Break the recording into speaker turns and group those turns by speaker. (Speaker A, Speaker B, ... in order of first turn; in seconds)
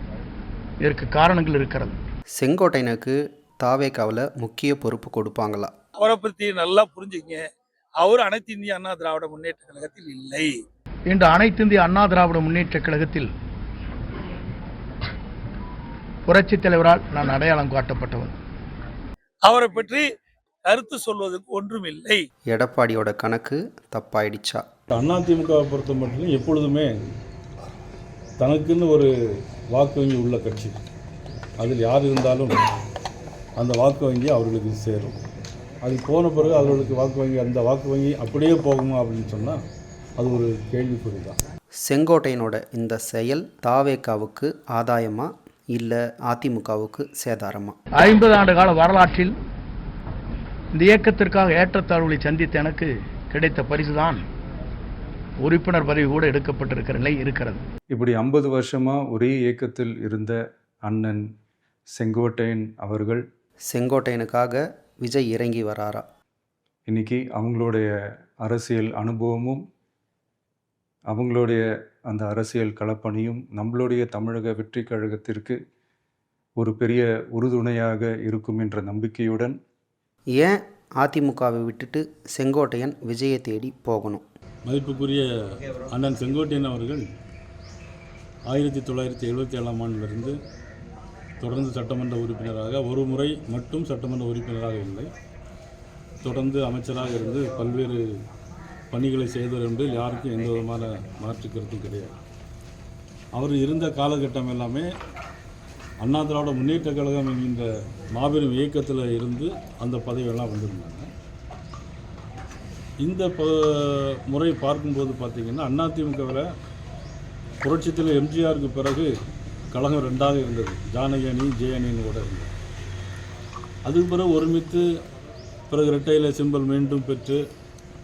Speaker A: 0.8-1.9, 11.1-13.3, 16.3-18.3, 48.0-49.3, 50.8-54.2, 55.4-57.6
Speaker B: 2.4-5.7, 22.5-24.6, 41.8-47.8, 63.7-66.0, 80.3-84.3
Speaker C: 6.0-7.4, 8.0-10.5, 19.4-20.1, 20.7-22.2
Speaker D: 24.9-26.9, 28.4-29.1, 29.7-30.8, 31.6-32.5, 33.6-35.2, 35.8-39.6, 40.2-41.4, 84.7-85.2, 85.9-87.0, 88.5-90.3, 91.4-95.1, 96.2-98.0, 98.9-102.2, 103.3-104.9, 106.0-111.1, 113.0-116.5, 117.6-119.1, 119.7-122.5, 123.8-124.8, 125.7-127.4
Speaker E: 57.9-61.2, 62.0-63.2, 66.9-67.9, 68.4-69.6, 71.1-75.6, 76.6-79.6